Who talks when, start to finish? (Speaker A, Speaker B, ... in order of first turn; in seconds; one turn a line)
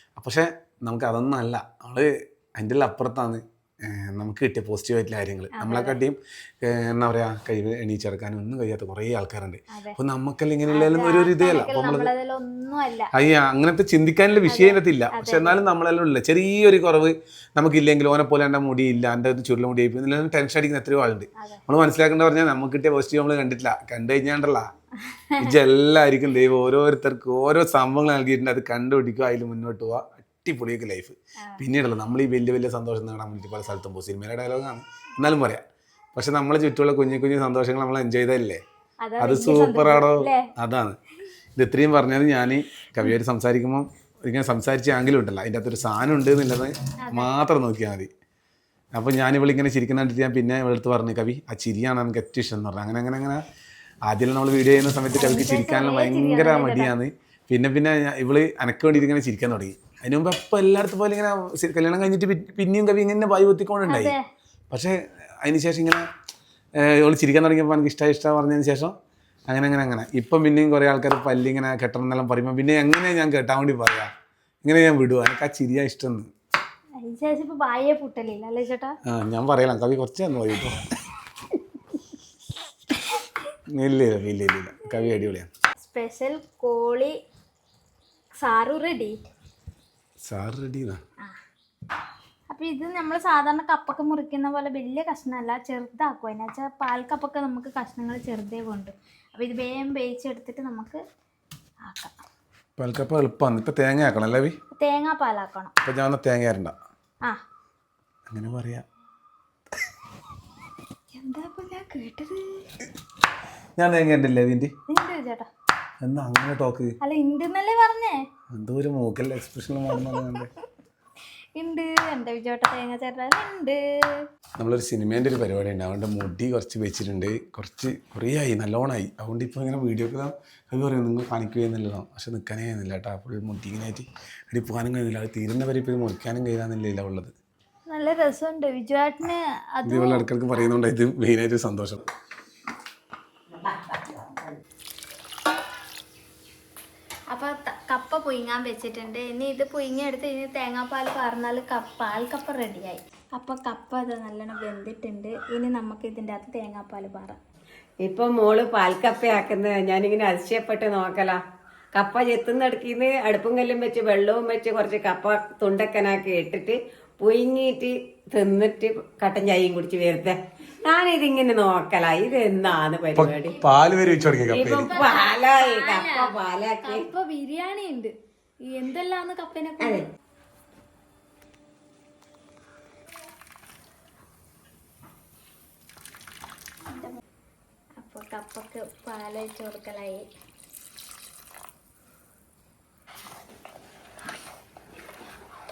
Speaker A: 0.2-12.1
Speaker B: 5.5-6.0
Speaker B: 10.7-13.1
Speaker A: 13.1-24.6
Speaker B: 14.5-15.6
Speaker B: 25.0-25.5
Speaker A: 25.4-35.6
Speaker A: 36.1-38.6
Speaker B: 39.0-40.5
Speaker A: 39.2-41.0
Speaker A: 41.6-48.1
Speaker B: 47.0-47.3
Speaker A: 49.0-53.4
Speaker A: 54.1-64.2
Speaker B: 55.1-56.9
Speaker B: 63.9-64.2
Speaker A: 64.7-66.0
Speaker A: 66.8-68.9
Speaker A: 69.5-74.1
Speaker A: 74.6-76.3
Speaker B: 77.0-79.0
Speaker A: 79.1-80.8
Speaker A: 83.7-85.5
Speaker B: 85.8-87.1
Speaker B: 88.4-89.2
Speaker A: 90.2-91.0
Speaker B: 92.5-101.0
Speaker B: 101.9-102.1
Speaker A: 102.8-104.5
Speaker B: 104.8-105.7
Speaker A: 105.8-106.8
Speaker A: 108.3-108.8
Speaker B: 111.1-112.7
Speaker A: 113.8-114.7
Speaker B: 114.9-115.5
Speaker A: 116.0-117.0
Speaker B: 117.0-118.2
Speaker A: 118.5-120.5
Speaker B: 121.6-124.2
Speaker A: 124.6-137.3
Speaker B: 137.9-140.2
Speaker A: 139.8-142.0
Speaker C: 143.5-144.6
Speaker B: 147.3-157.4
Speaker C: 158.1-161.4
Speaker C: 162.0-173.6
Speaker A: 173.2-175.0
Speaker C: 174.5-177.1
Speaker B: 174.8-176.3
Speaker B: 176.8-178.1
Speaker B: 178.7-180.0
Speaker B: 186.9-187.2
Speaker B: 188.0-190.3